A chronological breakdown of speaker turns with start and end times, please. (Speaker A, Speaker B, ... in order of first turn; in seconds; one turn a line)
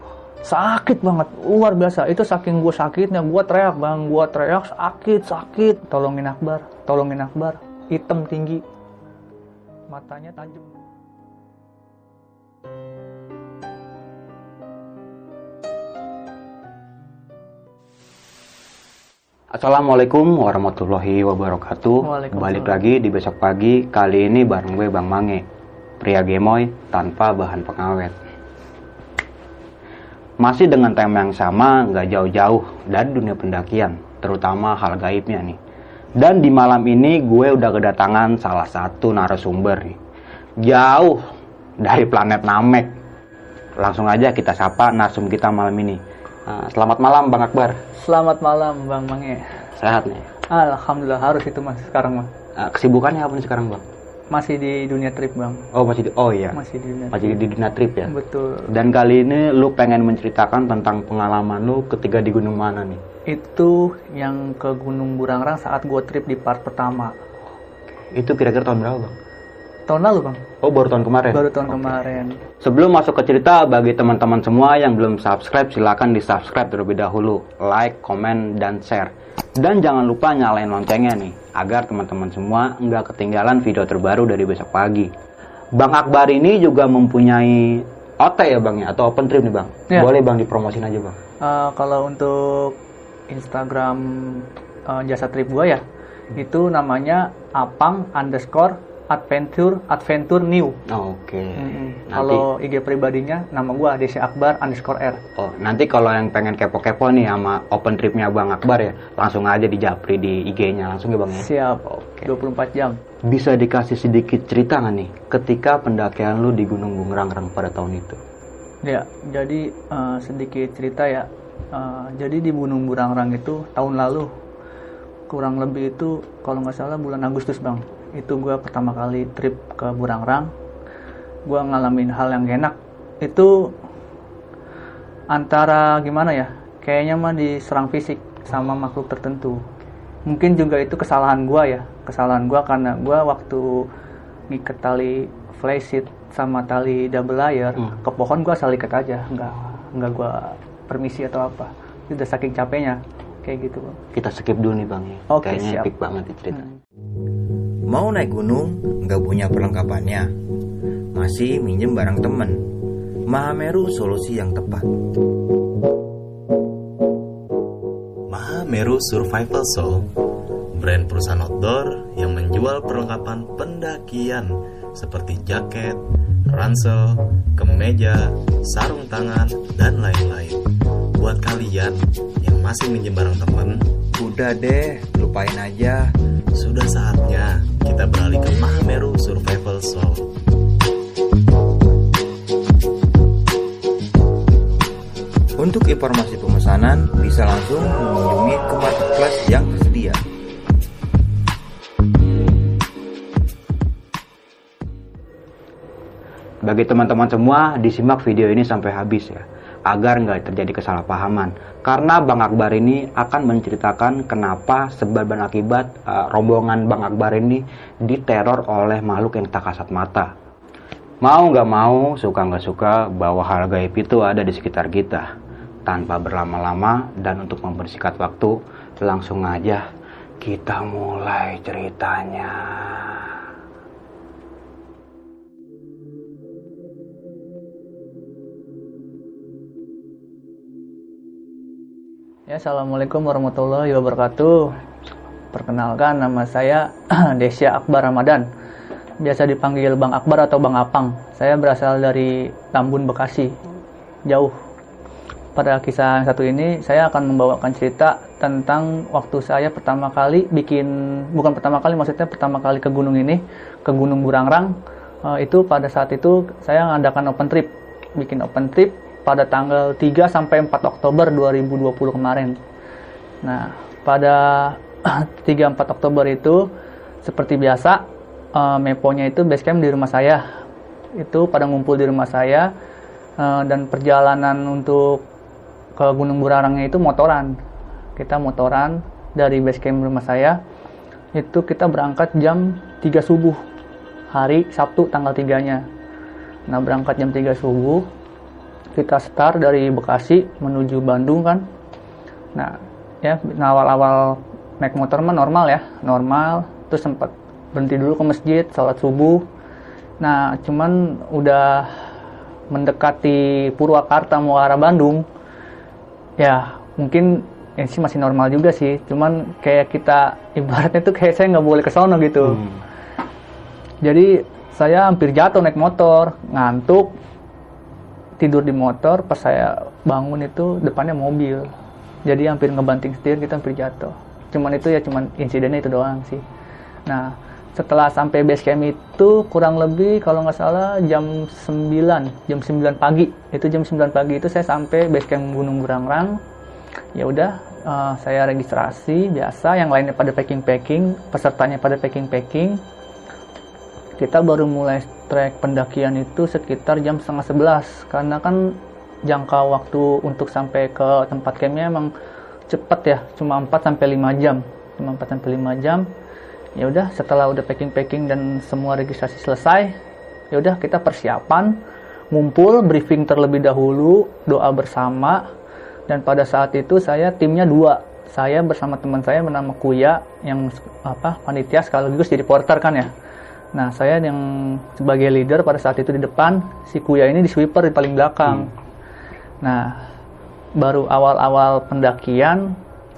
Speaker A: 0.4-8.6
Speaker A: 9.9-10.7
Speaker B: 19.5-25.4
Speaker A: 22.0-22.9
Speaker B: 26.0-28.2
Speaker B: 30.4-35.6
Speaker B: 36.2-40.0
Speaker B: 40.6-41.2
Speaker B: 41.8-42.9
Speaker B: 43.8-47.8
Speaker A: 48.0-49.5
Speaker B: 49.8-50.3
Speaker A: 50.5-52.3
Speaker B: 52.6-53.8
Speaker A: 54.3-55.6
Speaker B: 55.7-56.6
Speaker A: 56.5-57.4
Speaker B: 57.1-58.1
Speaker A: 58.1-58.7
Speaker B: 58.7-63.0
Speaker A: 63.3-67.2
Speaker B: 67.9-69.2
Speaker A: 69.9-70.4
Speaker B: 70.6-85.1
Speaker A: 71.3-72.4
Speaker B: 85.8-91.2
Speaker A: 91.4-92.8
Speaker A: 93.3-95.8
Speaker A: 96.3-100.8
Speaker B: 100.9-102.5
Speaker A: 101.6-105.2
Speaker B: 105.4-112.3
Speaker A: 111.3-113.0
Speaker B: 113.3-118.2
Speaker A: 118.8-124.3
Speaker A: 125.3-130.5
Speaker A: 131.5-133.7
Speaker A: 135.3-139.6
Speaker A: 140.3-143.9
Speaker A: 144.5-154.0
Speaker B: 154.1-156.7
Speaker A: 155.3-155.9
Speaker C: 157.9-160.3
Speaker C: 161.2-162.7
Speaker C: 163.3-164.9
Speaker D: 168.3-170.1
Speaker D: 170.7-180.6
Speaker D: 181.2-184.0
Speaker C: 184.1-186.1
Speaker D: 186.5-190.3
Speaker C: 195.6-200.2
Speaker B: 206.6-220.3
Speaker B: 221.2-225.3
Speaker B: 225.9-229.8
Speaker B: 230.4-233.4
Speaker A: 242.5-244.8
Speaker A: 245.5-248.5
Speaker A: 249.2-253.6
Speaker A: 254.3-254.5
Speaker A: 255.6-272.6
Speaker A: 273.4-276.7
Speaker A: 277.2-280.4
Speaker A: 281.2-282.7
Speaker A: 283.4-285.2
Speaker A: 286.0-287.6
Speaker A: 288.2-290.6
Speaker A: 291.4-293.6
Speaker A: 294.3-295.8
Speaker A: 296.7-298.1
Speaker A: 299.0-301.6
Speaker A: 302.6-309.4
Speaker A: 310.2-311.9
Speaker A: 312.7-315.2
Speaker A: 316.4-322.6
Speaker B: 322.4-322.8
Speaker A: 324.0-327.2
Speaker A: 328.4-331.7
Speaker A: 332.3-336.4
Speaker A: 337.1-346.4
Speaker A: 347.1-352.8
Speaker A: 354.2-362.1
Speaker A: 362.7-366.1
Speaker A: 366.8-369.9
Speaker A: 370.5-371.8
Speaker A: 372.3-375.5
Speaker A: 376.1-383.1
Speaker A: 383.8-388.7
Speaker A: 389.6-390.0
Speaker A: 390.8-392.8